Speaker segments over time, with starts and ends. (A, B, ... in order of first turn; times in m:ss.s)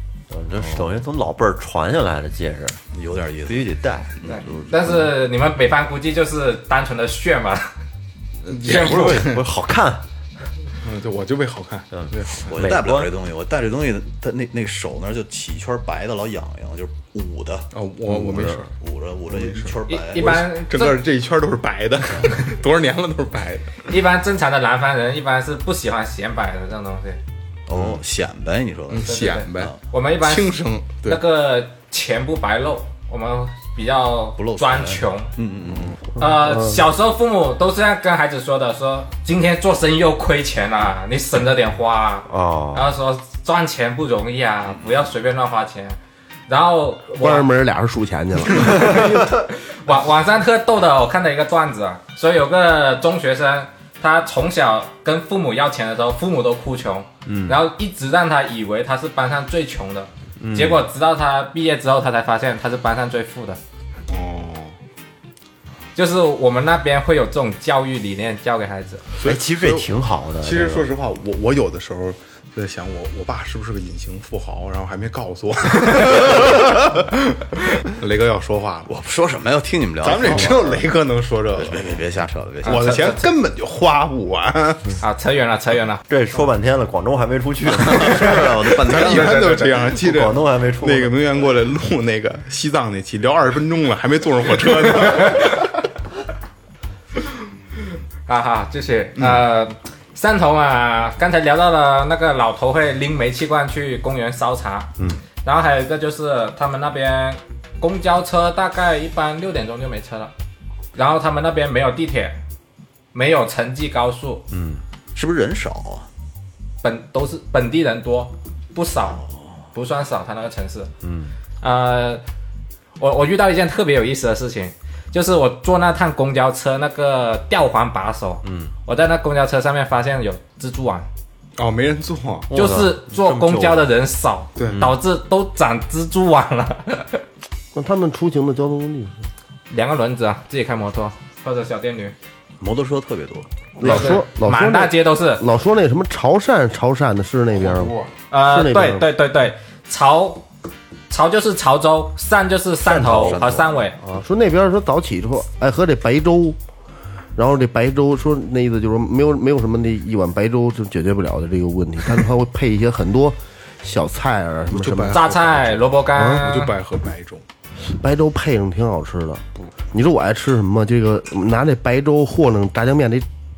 0:00.3-0:02.8 A
0:02.9-0:03.7 B
0:03.5-0:05.0 A
0:04.2-0:04.6 B
0:04.3-0:07.7 C
0:08.5-0:09.4 D
0:08.6-0:10.0 A
0:08.7-0:09.0 C
0:10.8-0:12.6 D
0:11.9-0:13.1 A
0:12.5-0:17.7 B
0:17.7-0:18.7 D
0:18.3-0:18.6 A
0:18.7-0:20.5 B
0:19.3-0:23.8 D
0:19.9-0:21.0 C
0:23.9-0:27.2 C
0:27.7-0:29.8 B
0:27.7-0:28.0 A
0:28.9-0:31.2 D
0:29.1-0:35.3 C
0:34.4-0:36.0 B
0:36.2-0:47.5 C
0:42.3-0:42.9 A
0:44.7-0:45.1 B
0:47.2-0:49.3 E
0:48.8-1:03.6 C
0:57.3-0:57.6 A
1:00.4-1:00.8 A
1:04.1-1:04.8 D
1:06.0-1:09.0 C
1:09.2-1:18.9 D
1:09.2-1:10.9 A
1:18.9-1:20.8 B
1:20.0-1:21.9 D
1:21.6-1:22.8 B
1:22.6-1:25.0 D
1:22.6-1:23.3 C
1:25.0-1:26.0 C
1:26.1-1:31.2 A
1:27.7-1:29.7 B
1:27.9-1:35.6 D
1:35.0-1:35.6 C
1:38.3-1:44.9 C
1:45.4-1:50.3 C
1:51.0-1:52.4 C
1:53.1-1:54.5 C
1:54.5-1:54.8 A
1:55.2-1:56.1 B
1:56.8-2:00.9 C
2:01.0-2:01.3 A
2:01.6-2:02.2 C
2:03.0-2:11.1 C
2:08.4-2:08.7 A
2:11.6-2:12.5 D
2:12.5-2:13.9 A
2:12.5-2:17.2 C
2:14.6-2:14.9 D
2:17.7-2:19.2 E
2:19.7-2:22.1 C
2:22.6-2:23.5 B
2:23.8-2:29.0 E
2:23.8-2:25.4 C
2:27.6-2:28.1 D
2:28.3-2:30.5 C
2:31.1-2:34.0 C
2:32.8-2:33.6 A
2:33.2-2:33.7 B
2:34.0-2:36.6 E
2:37.4-2:45.2 E
2:44.7-2:47.4 D
2:45.1-2:46.7 C
2:46.2-2:46.4 E
2:47.8-2:53.3 E